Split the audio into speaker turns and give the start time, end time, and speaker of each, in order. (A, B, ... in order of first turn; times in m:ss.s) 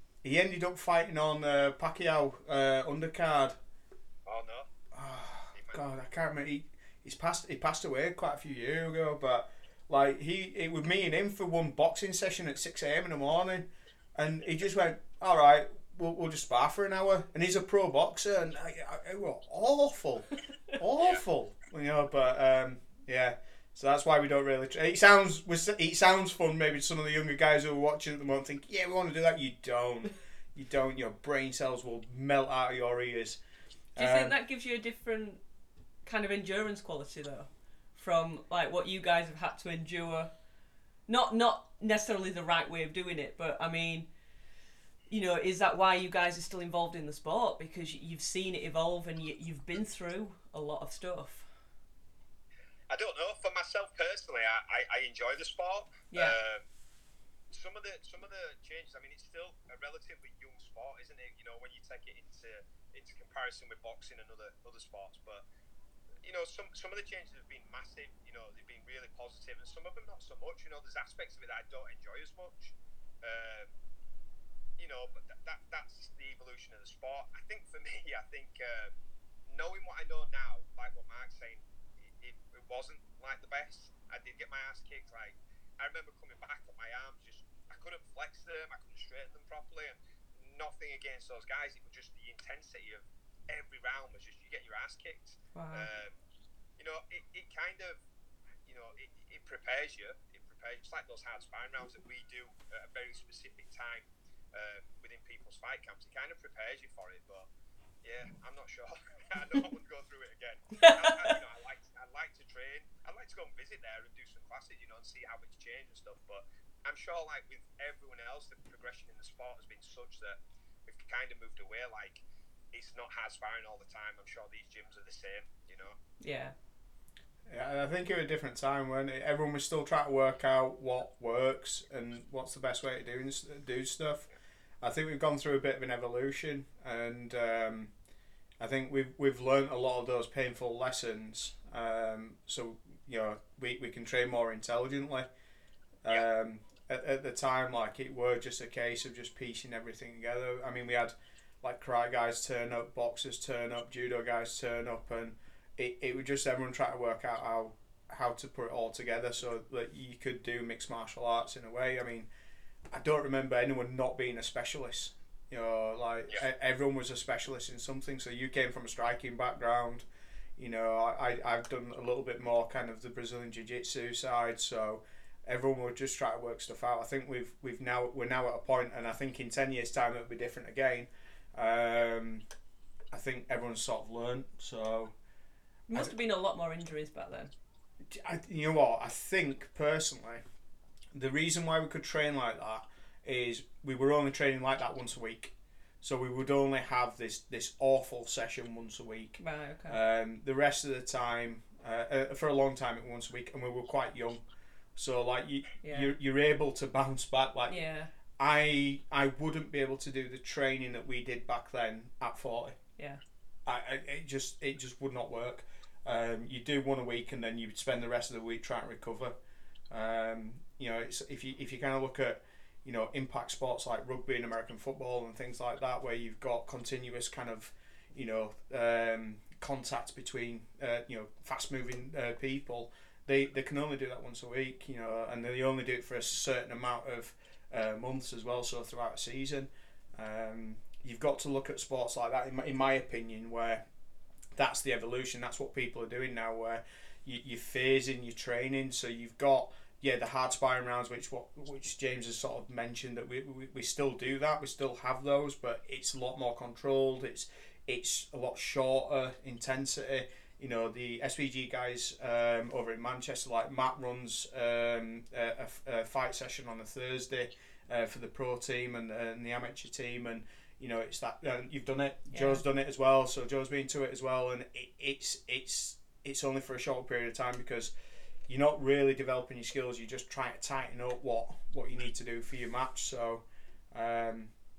0:00.2-0:03.6 A
0:04.2-0:04.7 B
0:04.9-0:33.4 A
0:34.0-0:34.3 A
0:34.0-0:35.4 C
0:36.0-0:40.3 C
0:41.1-0:44.1 C
0:45.1-0:51.5 C
0:52.9-0:56.6 B
0:56.1-0:56.4 C
0:57.5-1:05.4 B
1:06.2-1:13.7 B
1:14.8-1:18.9 B
1:19.5-1:36.2 B
1:35.5-1:35.9 C
1:36.8-1:38.0 B
1:38.6-1:47.5 B
1:48.0-2:06.0 B
1:50.8-1:51.4 C
2:06.2-2:06.5 C
2:07.5-2:14.3 A
2:14.8-2:17.9 A
2:18.6-2:25.3 A
2:26.0-2:42.3 A
2:42.9-2:50.0 A
2:50.6-3:02.4 A
3:03.1-3:05.1 A
3:05.9-3:07.5 C
3:08.1-3:10.4 A
3:11.1-3:24.4 A
3:19.4-3:20.0 C
3:25.0-3:27.8 A
3:25.8-3:26.1 C
3:27.7-3:28.1 C
3:28.4-3:32.8 A
3:33.6-3:39.3 A
3:39.9-4:03.8 A
4:04.6-4:37.9 A
4:32.3-4:32.6 C
4:38.5-4:44.5 A